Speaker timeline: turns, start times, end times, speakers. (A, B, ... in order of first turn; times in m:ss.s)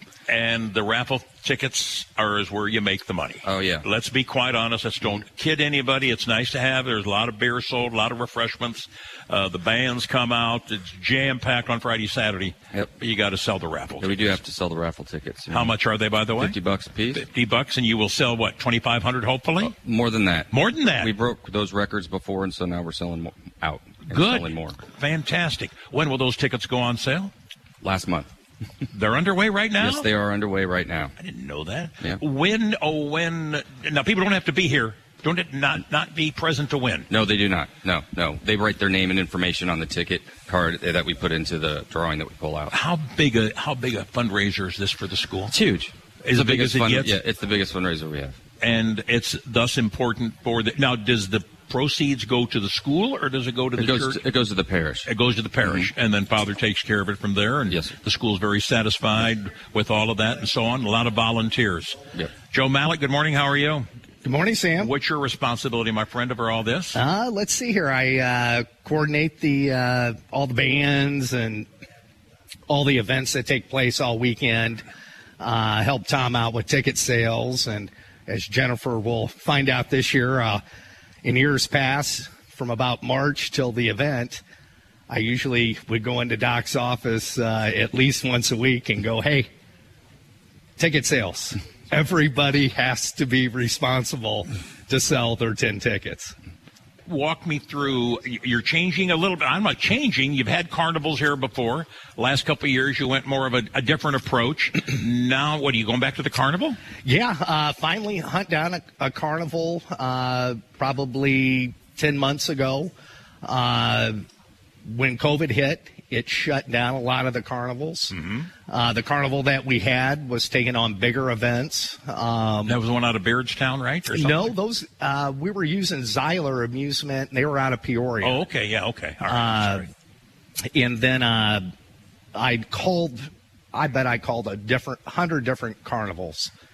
0:00.3-0:14.4 A
0:03.4-0:03.8 B
0:14.0-0:15.7 B
0:15.5-0:16.6 A
0:16.4-0:17.2 B
0:17.1-0:19.7 A
0:19.8-0:24.8 B
0:20.5-0:21.1 A
0:24.1-0:27.3 A
0:27.8-0:28.3 B
0:28.9-0:30.1 A
0:29.8-0:31.1 B
0:31.2-0:37.1 A
0:37.1-0:42.7 B
0:42.7-0:45.6 A
0:45.5-0:48.4 B
0:46.2-0:47.2 A
0:48.6-0:54.2 A
0:53.8-0:55.1 B
0:55.1-1:03.9 A
0:55.6-0:55.9 B
1:04.2-1:04.9 C
1:04.8-1:07.0 A
1:06.9-1:11.7 C
1:12.7-1:14.8 C
1:15.4-1:20.6 C
1:21.2-1:24.4 C
1:25.1-1:29.5 C
1:30.8-1:36.3 C
1:37.1-1:46.8 A
1:47.0-1:52.9 C
1:53.4-1:54.2 C
1:54.8-1:58.1 C
1:58.1-1:58.5 A
1:58.7-2:02.8 C
2:02.7-2:04.5 A
2:04.1-2:08.4 C
2:08.2-2:09.9 A
2:09.3-2:09.9 C
2:10.7-2:11.7 C
2:12.3-2:16.5 C